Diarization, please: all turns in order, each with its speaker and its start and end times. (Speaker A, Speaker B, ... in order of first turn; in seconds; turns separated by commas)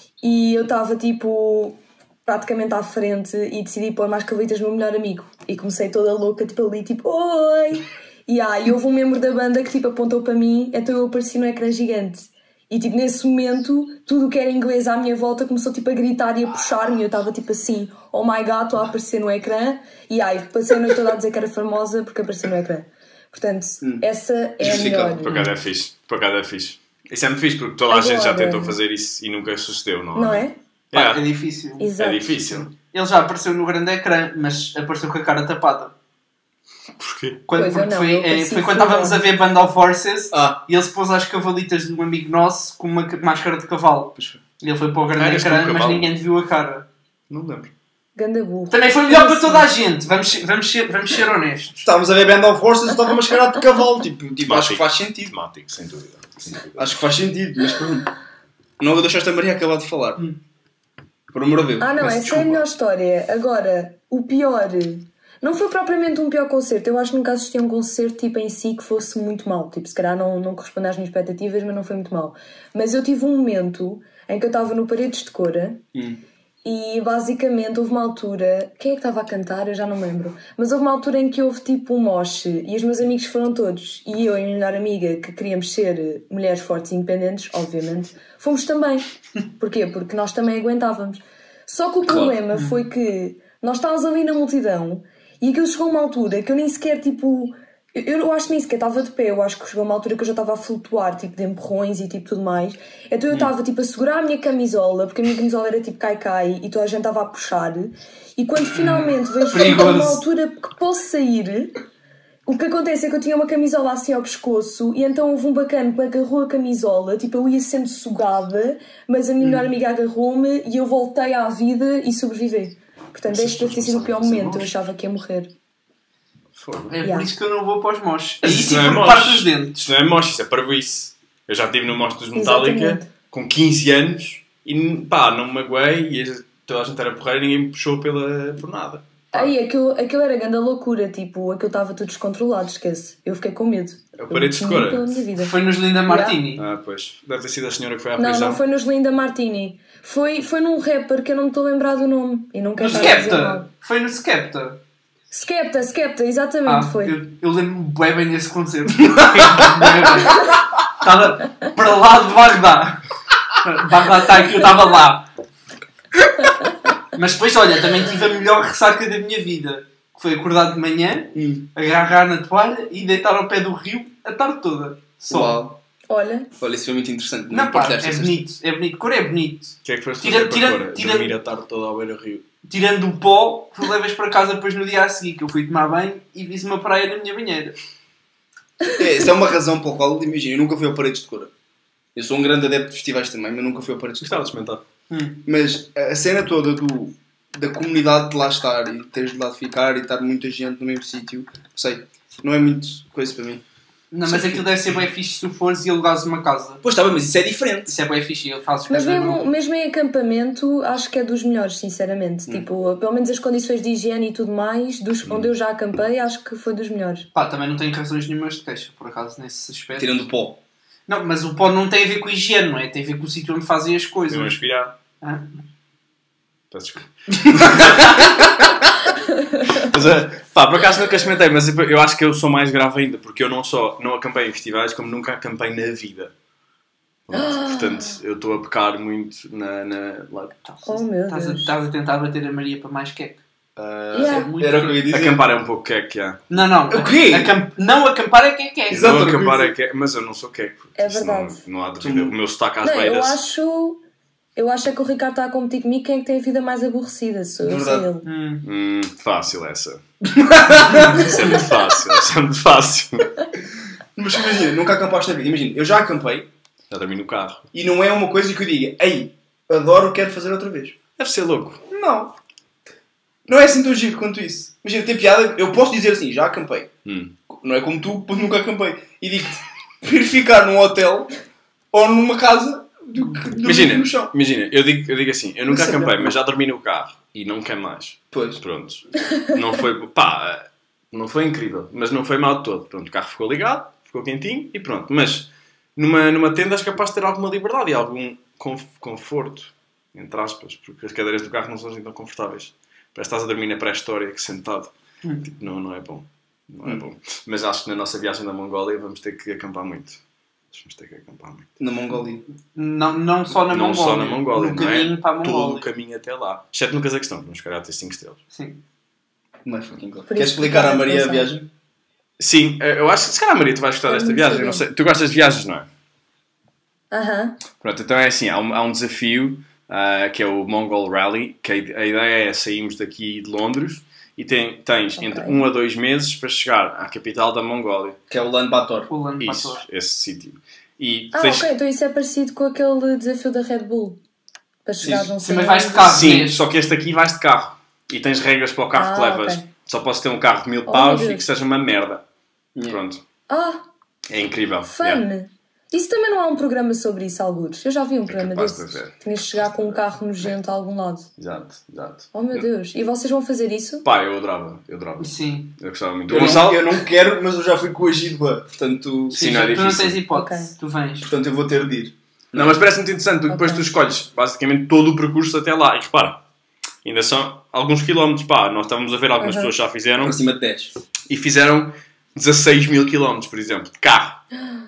Speaker A: 0.2-25.4, Speaker B: 23.8-24.1, Speaker B: 24.6-25.3, Speaker C: 24.7-31.2, Speaker A: 27.9-28.8, Speaker A: 30.1-30.6, Speaker D: 30.9-31.9, Speaker A: 31.8-32.6, Speaker C: 31.9-32.7, Speaker D: 32.8-35.9, Speaker C: 37.0-37.4, Speaker D: 37.5-46.9, Speaker A: 37.5-39.2, Speaker B: 40.3-40.6, Speaker C: 45.2-46.1, Speaker C: 47.3-47.7, Speaker A: 48.1-49.7, Speaker D: 48.7-51.9, Speaker B: 51.8-55.3, Speaker C: 54.4-56.9, Speaker B: 56.8-58.1, Speaker B: 58.8-60.2, Speaker B: 61.3-62.5, Speaker A: 61.8-75.8, Speaker C: 62.0-62.6, Speaker B: 75.9-76.2, Speaker A: 76.6-111.8, Speaker B: 92.1-92.3, Speaker D: 92.5-92.8, Speaker D: 108.7-110.2, Speaker A: 112.5-125.5, Speaker C: 123.3-124.7, Speaker C: 126.5-126.9, Speaker D: 126.9-129.9, Speaker A: 127.0-127.3, Speaker C: 128.4-139.5, Speaker A: 132.3-133.1, Speaker A: 139.3-145.5, Speaker C: 144.1-145.2, Speaker D: 145.3-146.6, Speaker A: 146.1-146.4, Speaker C: 146.5-148.6, Speaker A: 148.2-153.7, Speaker D: 152.8-154.8, Speaker A: 155.3-157.2, Speaker D: 156.7-163.0, Speaker D: 163.6-165.3, Speaker D: 167.1-175.6, Speaker B: 171.3-171.6, Speaker B: 175.3-175.8, Speaker A: 176.1-176.5, Speaker B: 176.6-178.4, Speaker D: 177.5-181.3, Speaker C: 179.8-182.4, Speaker D: 182.7-187.8, Speaker B: 188.9-191.5, Speaker B: 192.1-194.5, Speaker C: 194.2-194.8, Speaker D: 195.1-195.4, Speaker B: 195.4-203.6, Speaker D: 204.1-206.8, Speaker B: 204.2-204.7, Speaker B: 206.8-207.9, Speaker D: 207.8-209.5, Speaker A: 208.9-217.3, Speaker C: 215.2-215.5, Speaker D: 217.3-220.2, Speaker B: 220.0-220.6, Speaker D: 221.1-224.6, Speaker C: 224.3-224.9, Speaker D: 225.2-225.5, Speaker C: 226.7-228.9, Speaker C: 229.7-236.3, Speaker C: 237.3-240.6, Speaker A: 237.3-238.2, Speaker D: 240.7-243.4, Speaker A: 240.8-241.7, Speaker B: 244.1-245.4, Speaker A: 244.1-244.5, Speaker D: 244.1-245.0, Speaker C: 245.1-246.4, Speaker D: 246.5-249.1, Speaker B: 246.9-247.5, Speaker B: 248.9-249.7, Speaker C: 248.9-253.4, Speaker A: 250.9-251.6, Speaker B: 252.0-252.3, Speaker A: 252.8-254.0, Speaker A: 254.6-258.2, Speaker B: 257.6-258.1, Speaker D: 258.2-258.6, Speaker C: 258.6-260.0, Speaker B: 260.3-261.5, Speaker C: 260.7-263.3, Speaker B: 264.1-266.5, Speaker C: 266.9-267.7, Speaker B: 267.7-270.9, Speaker C: 271.2-271.8, Speaker B: 271.9-272.3, Speaker B: 273.5-276.9, Speaker C: 277.0-277.3, Speaker B: 277.5-281.3, Speaker B: 281.9-284.3, Speaker C: 283.6-304.9, Speaker B: 285.7-286.3, Speaker B: 288.3-288.6, Speaker C: 305.4-310.2, Speaker C: 310.7-311.7, Speaker B: 311.8-312.4, Speaker D: 312.7-315.8, Speaker C: 313.7-318.4, Speaker D: 318.5-318.8, Speaker B: 319.6-321.7, Speaker A: 320.3-321.5, Speaker C: 322.4-325.9, Speaker A: 324.1-324.8, Speaker A: 327.1-327.6, Speaker C: 327.8-338.2, Speaker A: 335.2-335.6, Speaker B: 338.3-339.1, Speaker D: 339.1-339.8, Speaker C: 339.4-341.7, Speaker A: 341.3-344.2, Speaker A: 344.8-346.2, Speaker B: 345.0-345.3, Speaker D: 345.4-346.6, Speaker C: 346.0-352.2, Speaker A: 348.9-349.6, Speaker A: 350.9-351.4, Speaker C: 352.9-353.2, Speaker A: 353.5-353.8, Speaker C: 354.3-355.2, Speaker A: 354.9-361.3, Speaker C: 358.3-359.1, Speaker C: 361.4-362.6, Speaker A: 362.3-364.1, Speaker C: 364.0-366.9, Speaker D: 365.2-365.7, Speaker B: 366.3-369.9, Speaker C: 369.3-370.2, Speaker D: 369.3-371.3, Speaker A: 370.3-370.7, Speaker B: 371.2-372.8, Speaker C: 372.5-376.4, Speaker A: 373.5-373.9, Speaker C: 377.0-380.4, Speaker A: 379.4-379.7, Speaker B: 380.2-380.9, Speaker C: 381.3-384.4